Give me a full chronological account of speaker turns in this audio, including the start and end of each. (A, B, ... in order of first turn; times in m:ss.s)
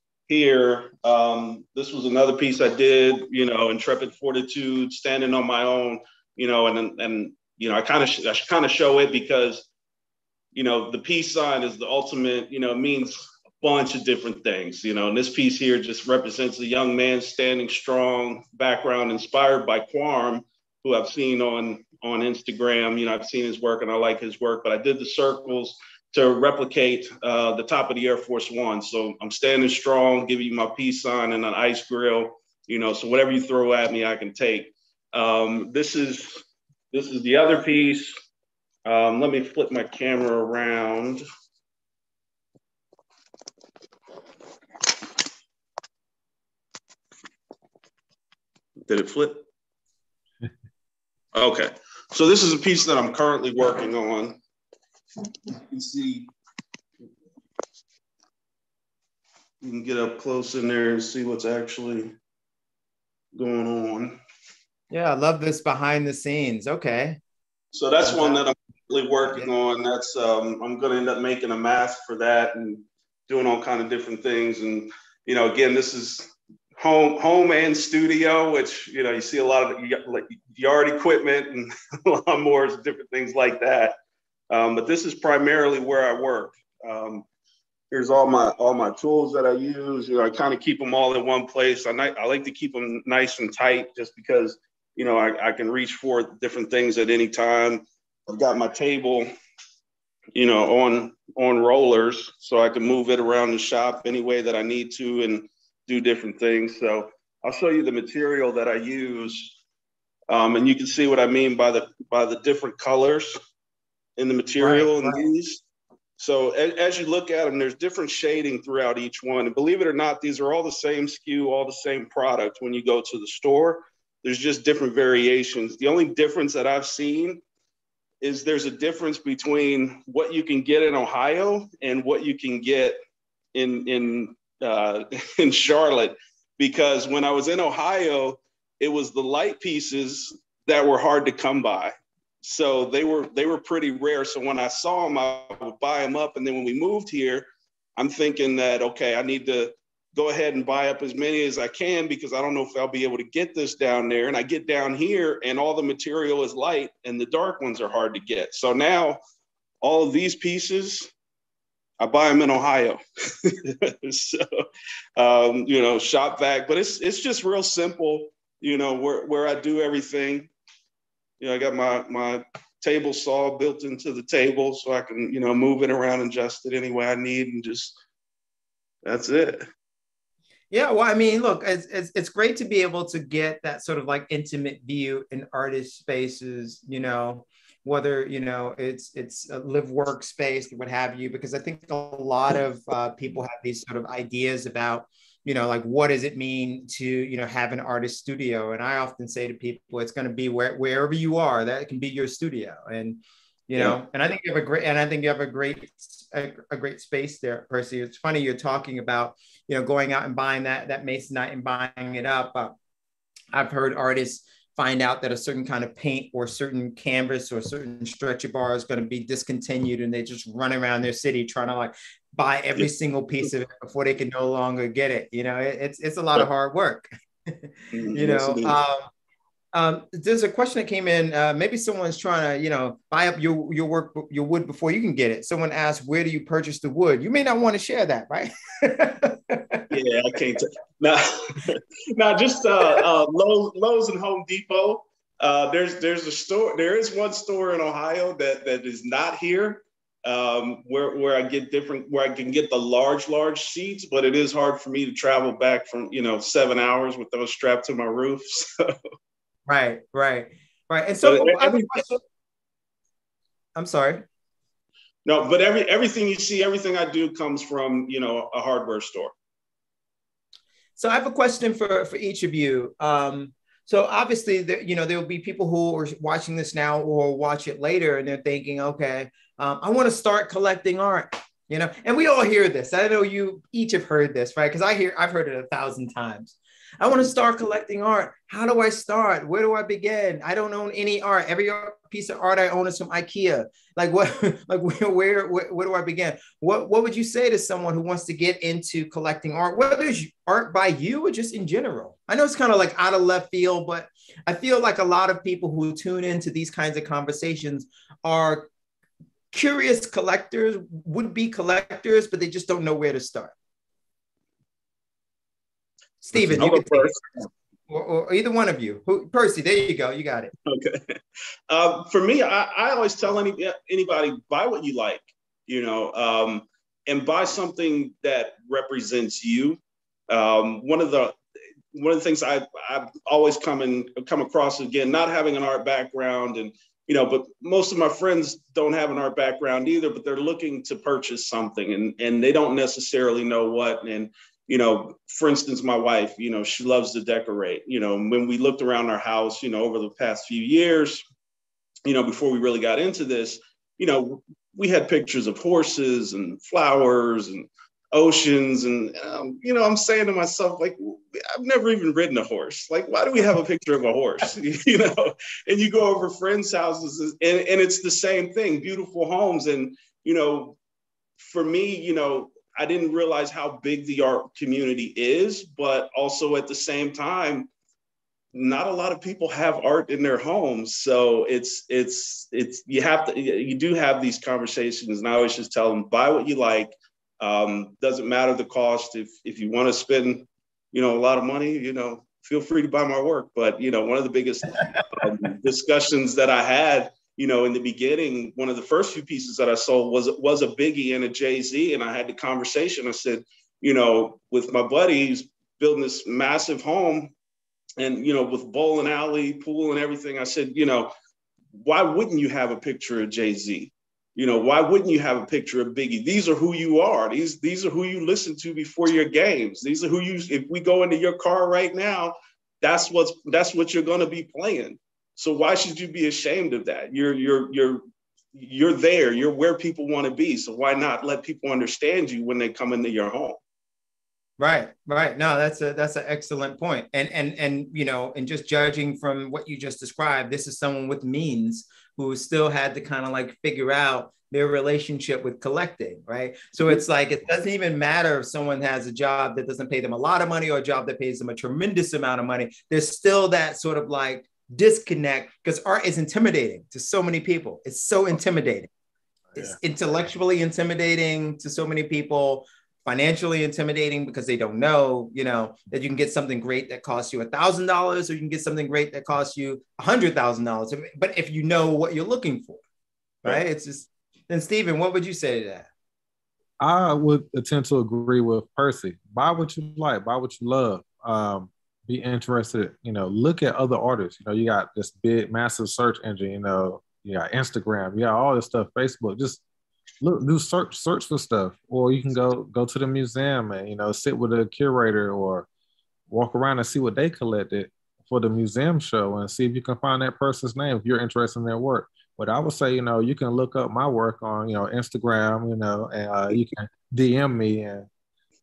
0:00.3-0:09.7 A
0:10.5-0:38.1 A
0:38.8-0:41.2 A
0:48.9-0:49.4 A
0:51.3-0:54.4 A
0:55.5-0:56.3 A
0:59.6-1:02.1 A
1:03.3-1:04.2 A
1:04.9-1:07.2 B
1:07.7-1:24.0 A
1:08.0-1:08.4 B
1:24.5-1:27.2 A
1:27.9-1:39.3 A
1:40.4-1:49.6 A
1:50.3-1:53.4 A
1:54.2-1:55.6 A
1:54.6-1:55.3 B
1:56.2-2:07.4 A
2:08.2-2:13.0 A
2:13.5-2:39.2 A
2:39.8-2:41.1 A
2:42.0-2:44.7 A
2:45.2-2:50.5 A
2:51.4-2:58.0 A
2:59.0-2:59.6 A
3:00.7-3:32.7 B
3:33.5-3:49.1 B
3:47.9-3:48.8 A
3:49.7-3:59.9 B
3:59.9-4:19.0 A
4:19.7-4:22.2 B
4:21.2-4:22.0 A
4:23.8-4:24.3 B
4:25.2-4:29.3 A
4:31.0-5:08.7 B
5:09.5-5:13.6 B
5:16.2-5:17.2 B
5:16.4-5:17.5 A
5:17.9-5:20.5 B
5:20.7-5:21.2 A
5:21.7-5:29.8 A
5:30.3-5:31.4 A
5:31.9-5:51.2 A
5:52.0-6:10.8 A
6:11.4-6:17.7 A
6:18.5-6:47.3 A
6:48.0-6:51.1 A
6:51.8-7:08.0 A
7:08.6-7:13.6 A
7:14.6-7:38.9 B
7:39.6-7:52.8 B
7:53.4-7:55.9 B
7:56.8-8:09.6 C
8:10.2-8:15.7 C
8:16.3-8:28.1 C